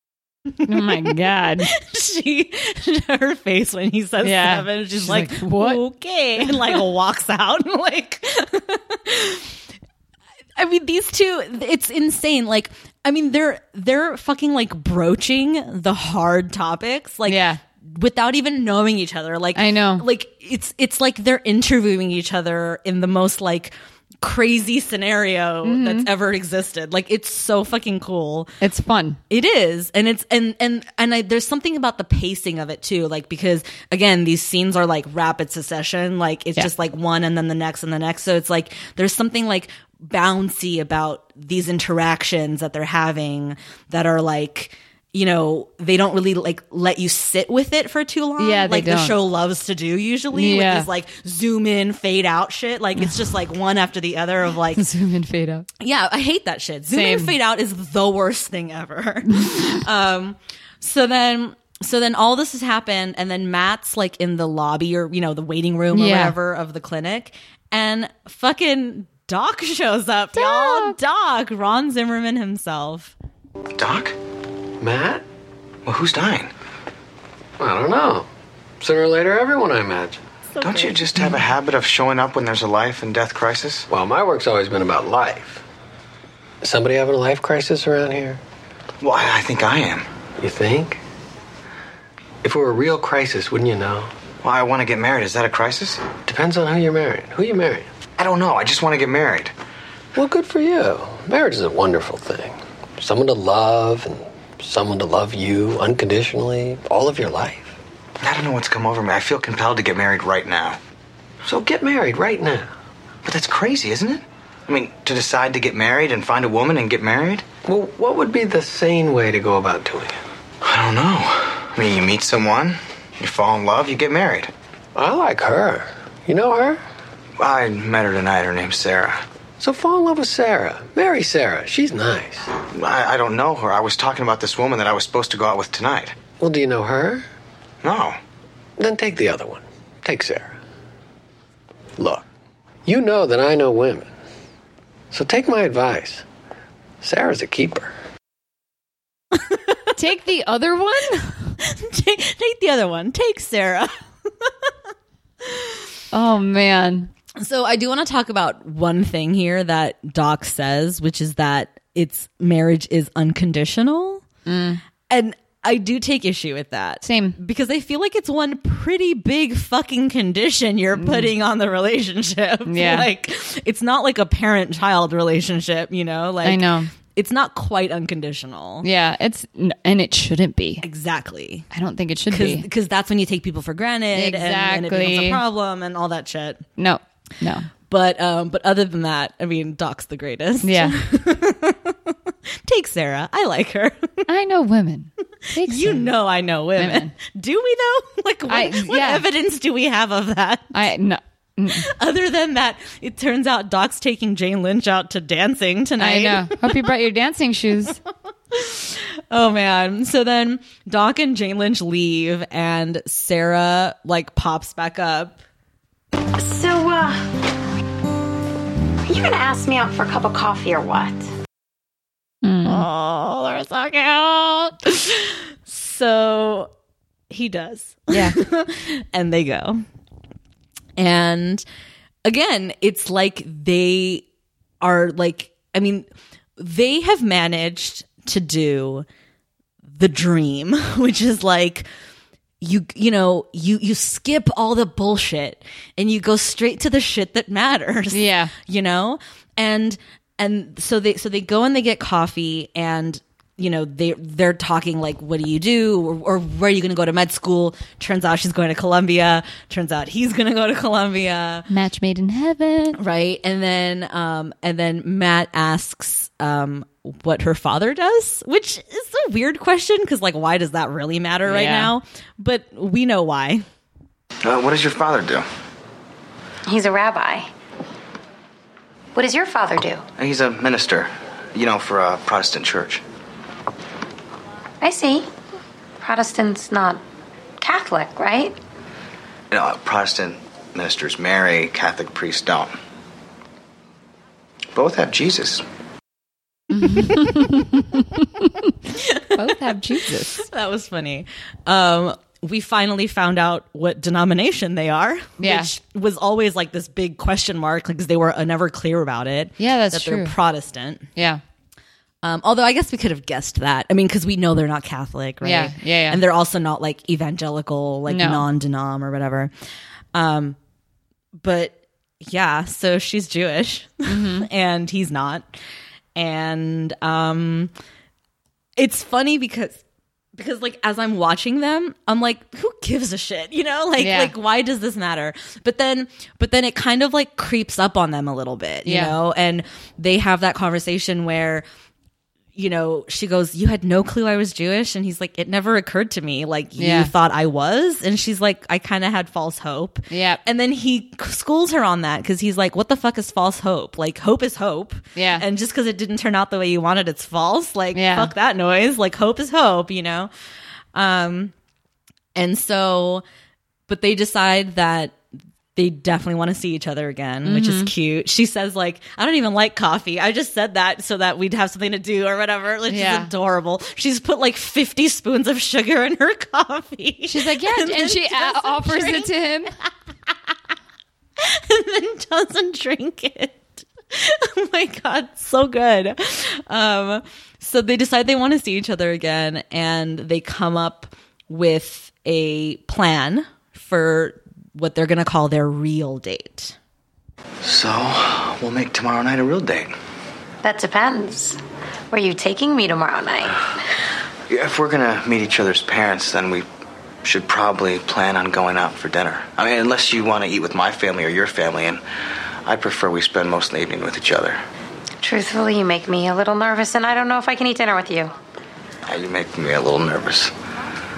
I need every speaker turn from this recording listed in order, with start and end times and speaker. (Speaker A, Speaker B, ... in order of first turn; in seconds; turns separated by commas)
Speaker A: 0.6-1.7, Speaker B: 1.6-9.5, Speaker A: 4.2-5.8, Speaker B: 10.6-28.5, Speaker A: 17.2-17.6, Speaker A: 19.6-20.1, Speaker A: 25.6-26.1, Speaker A: 28.6-29.2, Speaker B: 29.3-54.8, Speaker A: 48.4-49.1, Speaker A: 50.3-50.9, Speaker A: 54.8-55.7, Speaker B: 55.8-73.1, Speaker A: 56.9-57.4, Speaker A: 65.9-66.3, Speaker A: 70.3-71.0, Speaker C: 73.8-74.2, Speaker D: 74.8-75.2, Speaker C: 75.9-76.5, Speaker D: 77.6-78.3, Speaker D: 78.8-80.2, Speaker B: 80.5-81.0, Speaker C: 80.6-83.9, Speaker D: 83.9-85.6, Speaker D: 86.6-88.4, Speaker C: 89.0-90.1, Speaker D: 90.4-91.0, Speaker D: 92.4-94.1, Speaker C: 94.4-96.0, Speaker D: 96.2-97.9, Speaker C: 98.2-99.5, Speaker D: 100.1-107.7, Speaker C: 108.2-110.8, Speaker D: 111.4-112.7, Speaker C: 113.2-117.5, Speaker D: 117.7-120.2, Speaker C: 120.6-124.5, Speaker D: 125.0-126.8, Speaker C: 127.4-129.2, Speaker D: 129.6-132.5, Speaker C: 132.7-136.2, Speaker D: 136.4-137.3, Speaker C: 137.8-138.2, Speaker D: 138.8-140.6, Speaker D: 142.0-142.2, Speaker D: 142.8-144.1, Speaker D: 145.1-146.2, Speaker D: 147.0-147.9, Speaker A: 149.9-151.6, Speaker B: 151.6-154.7, Speaker B: 155.4-155.7, Speaker A: 156.1-157.1, Speaker B: 157.4-164.2, Speaker A: 164.5-164.8, Speaker B: 165.1-178.9, Speaker A: 167.0-167.4, Speaker A: 171.0-171.3, Speaker A: 172.7-173.1, Speaker A: 176.4-176.9, Speaker A: 178.8-180.8, Speaker B: 180.8-181.7, Speaker A: 181.7-182.7, Speaker B: 182.3-186.6, Speaker A: 184.1-185.4, Speaker A: 186.8-187.7, Speaker B: 187.9-192.1, Speaker A: 190.6-191.0, Speaker B: 192.7-194.2, Speaker A: 194.3-196.1, Speaker B: 195.6-200.9, Speaker A: 196.8-197.1, Speaker A: 198.5-199.2, Speaker A: 200.7-201.9, Speaker B: 201.8-206.9, Speaker A: 206.0-208.0, Speaker B: 208.5-215.4, Speaker E: 216.4-217.3, Speaker E: 219.0-221.3, Speaker A: 222.4-222.8, Speaker B: 222.7-226.7, Speaker B: 227.3-229.8, Speaker A: 228.1-228.4, Speaker B: 231.0-231.6, Speaker B: 232.2-234.2, Speaker B: 234.8-236.1, Speaker B: 236.6-239.1, Speaker B: 240.0-241.9, Speaker B: 242.6-261.7, Speaker A: 248.1-248.5, Speaker A: 261.7-263.0, Speaker B: 263.0-273.6, Speaker A: 271.4-271.9, Speaker C: 274.4-275.4, Speaker E: 276.6-277.5, Speaker E: 279.1-280.0, Speaker C: 280.2-283.0, Speaker E: 284.8-285.3, Speaker E: 286.0-287.0, Speaker E: 287.6-288.6, Speaker C: 289.5-292.7, Speaker C: 294.7-295.6, Speaker A: 296.7-298.7, Speaker B: 299.0-299.4, Speaker A: 299.4-300.4, Speaker B: 300.1-311.1, Speaker A: 305.4-305.7, Speaker A: 309.6-310.3, Speaker A: 311.1-311.4, Speaker B: 312.2-319.5, Speaker A: 315.4-316.2, Speaker A: 318.1-318.4, Speaker B: 320.1-320.6, Speaker B: 321.4-325.5, Speaker A: 324.1-324.5, Speaker B: 326.1-327.7, Speaker B: 328.8-329.8, Speaker B: 330.4-341.6, Speaker A: 334.0-334.3, Speaker A: 338.9-339.1, Speaker B: 342.5-360.3, Speaker A: 346.8-347.1, Speaker A: 350.1-350.4, Speaker A: 355.1-355.4, Speaker A: 357.9-358.3, Speaker B: 360.9-361.5, Speaker B: 362.4-363.2, Speaker B: 363.9-365.2, Speaker B: 365.8-379.8, Speaker A: 367.4-367.9, Speaker A: 372.9-373.3, Speaker A: 377.3-379.7, Speaker B: 381.4-396.7, Speaker C: 397.6-399.9, Speaker E: 400.6-401.6, Speaker E: 402.1-403.6, Speaker C: 404.5-406.6, Speaker C: 407.2-412.0, Speaker C: 412.6-414.6, Speaker E: 415.2-418.3, Speaker C: 419.1-420.5